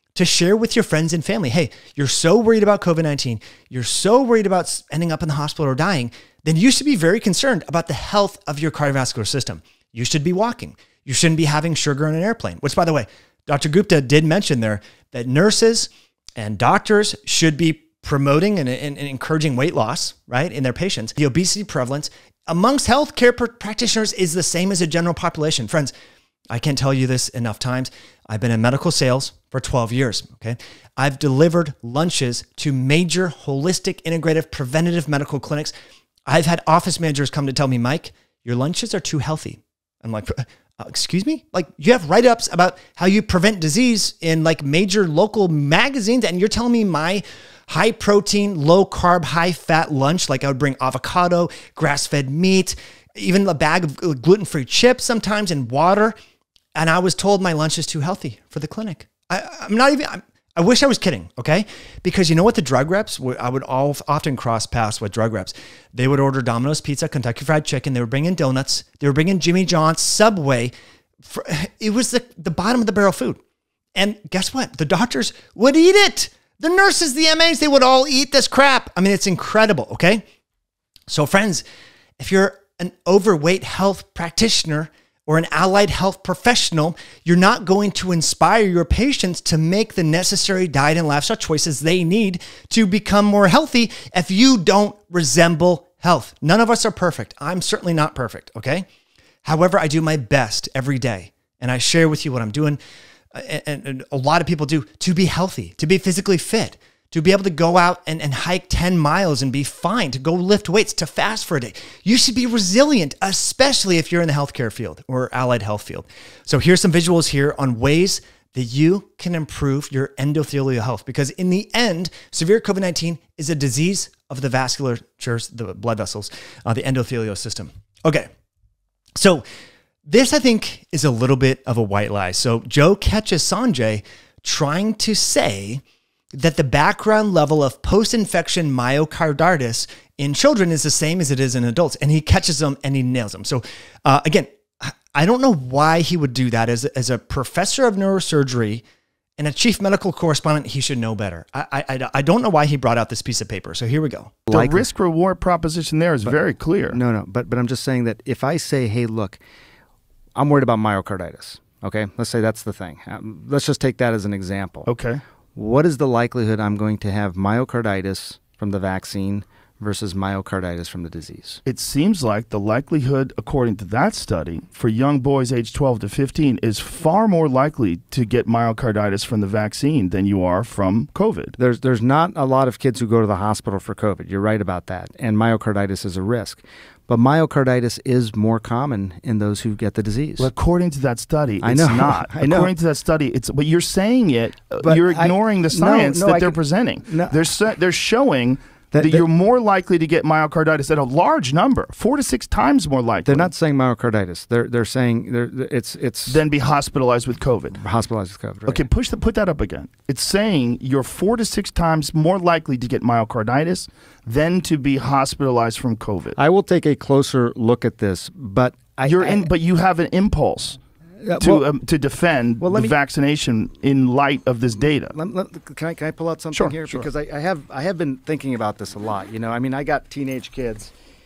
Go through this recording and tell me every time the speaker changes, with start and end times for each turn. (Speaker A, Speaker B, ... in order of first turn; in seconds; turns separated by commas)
Speaker A: 0.1-25.9, Speaker A: 26.5-35.7, Speaker A: 36.3-56.1, Speaker A: 56.8-70.7, Speaker A: 71.2-73.4, Speaker A: 74.0-80.2, Speaker A: 81.1-81.6, Speaker A: 82.2-98.8, Speaker A: 99.4-102.8, Speaker A: 103.3-128.3, Speaker A: 129.2-129.4, Speaker A: 130.1-135.8, Speaker A: 136.3-148.8, Speaker A: 149.4-154.4, Speaker B: 154.5-157.0, Speaker C: 154.5-154.9, Speaker C: 156.9-159.4, Speaker C: 160.4-164.9, Speaker B: 164.9-165.2, Speaker C: 165.6-171.6, Speaker B: 171.7-181.6, Speaker C: 181.6-190.5, Speaker B: 190.4-203.5, Speaker C: 191.6-192.7, Speaker C: 194.8-197.4, Speaker C: 198.9-199.2, Speaker C: 203.2-206.4, Speaker B: 206.3-207.8, Speaker C: 207.8-208.9, Speaker B: 208.7-216.4, Speaker C: 216.4-219.5, Speaker B: 219.0-220.8, Speaker C: 221.2-221.7, Speaker B: 221.4-225.2, Speaker C: 222.6-222.9, Speaker C: 225.1-230.9, Speaker B: 226.5-227.1